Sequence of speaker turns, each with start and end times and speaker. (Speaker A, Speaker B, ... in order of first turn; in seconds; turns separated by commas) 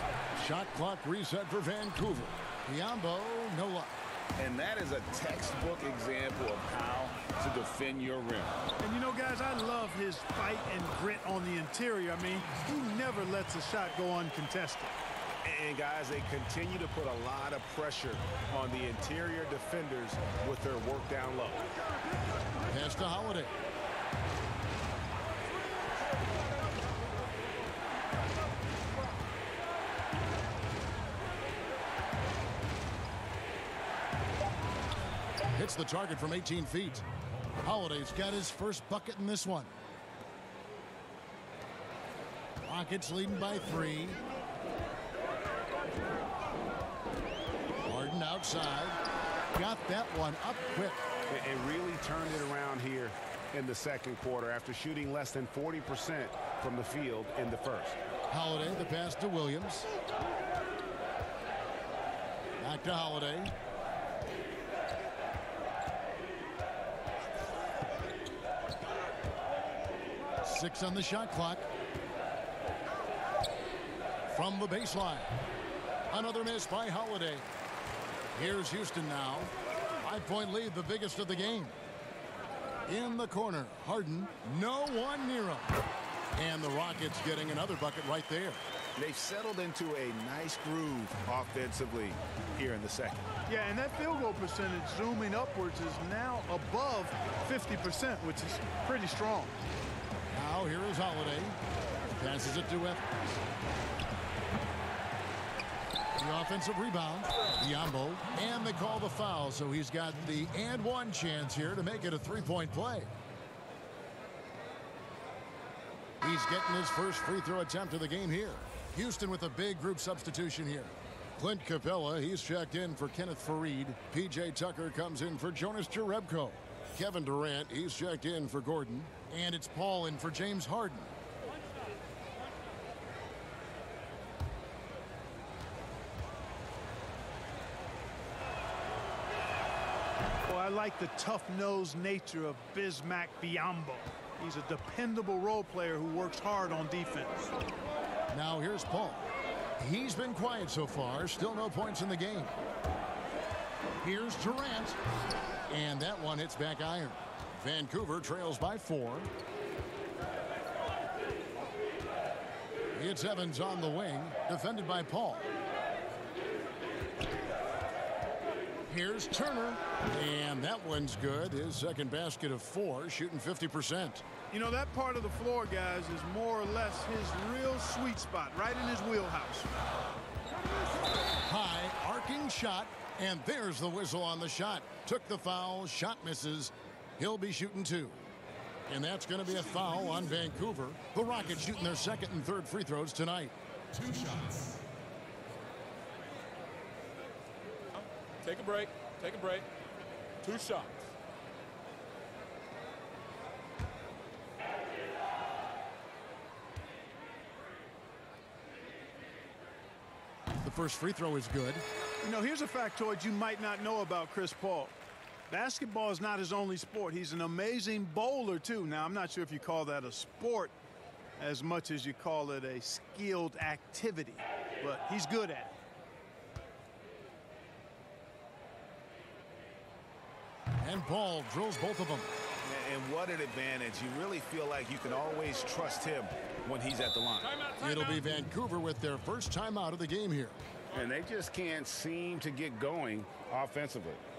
Speaker A: 0.4-4.0, Speaker B: 4.4-8.6, Speaker C: 8.8-14.9, Speaker B: 15.4-21.7, Speaker A: 22.7-23.5, Speaker A: 35.5-37.0, Speaker A: 37.6-39.7, Speaker A: 42.6-44.2, Speaker A: 47.9-49.0, Speaker A: 49.5-51.0, Speaker B: 51.3-58.0, Speaker A: 58.3-59.9, Speaker A: 62.6-63.5, Speaker A: 70.4-71.7, Speaker A: 74.3-75.3, Speaker A: 76.1-77.5, Speaker A: 78.3-81.8, Speaker A: 82.9-85.7, Speaker A: 86.3-88.6, Speaker B: 89.0-93.3, Speaker C: 93.5-99.5, Speaker A: 100.3-101.6, Speaker A: 102.1-103.2, Speaker A: 106.2-113.1, Speaker A: 116.2-131.1, Speaker C: 140.5-147.5, Speaker A: 148.3-149.3, Speaker A: 149.8-152.6, Speaker A: 154.0-155.0, Speaker A: 155.7-159.3, Speaker A: 162.9-165.4, Speaker A: 168.9-174.2, Speaker C: 174.5-179.7, Speaker A: 181.4-188.2, Speaker A: 188.9-194.3, Speaker D: 198.0-199.7, Speaker D: 200.4-201.0, Speaker A: 210.5-211.8, Speaker C: 212.2-214.9, Speaker C: 215.5-220.7, Speaker C: 221.4-225.8, Speaker A: 230.8-232.3, Speaker B: 232.7-237.7, Speaker A: 237.8-240.6, Speaker B: 240.9-244.2